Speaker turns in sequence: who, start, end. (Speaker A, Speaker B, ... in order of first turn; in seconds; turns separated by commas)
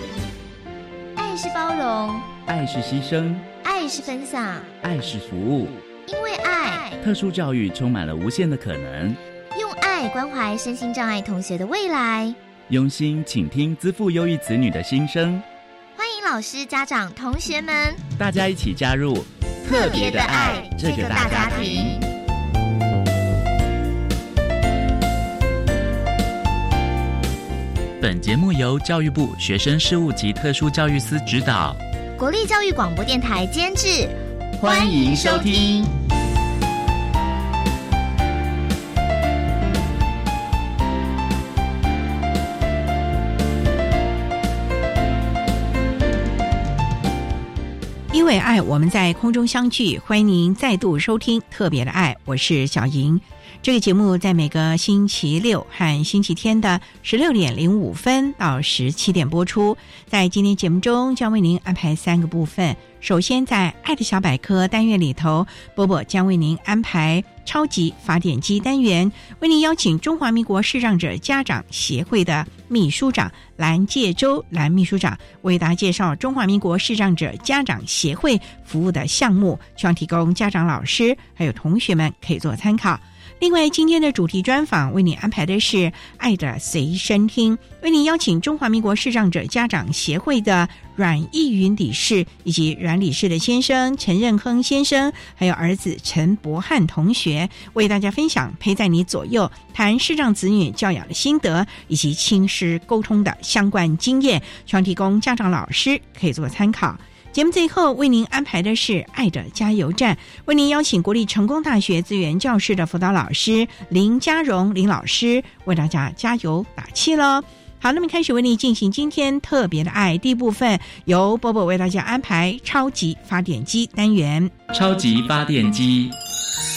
Speaker A: 1.2-2.3, Speaker B: 2.4-3.5, Speaker A: 3.6-4.8, Speaker B: 4.8-5.8, Speaker A: 6.0-7.0, Speaker B: 7.0-9.2, Speaker A: 9.5-12.4, Speaker B: 12.7-15.4, Speaker A: 15.9-18.0, Speaker B: 18.1-22.0, Speaker A: 19.6-22.0, Speaker B: 28.0-31.8, Speaker A: 32.2-35.8, Speaker B: 34.7-35.8, Speaker C: 48.1-124.5, Speaker B: 124.7-126.2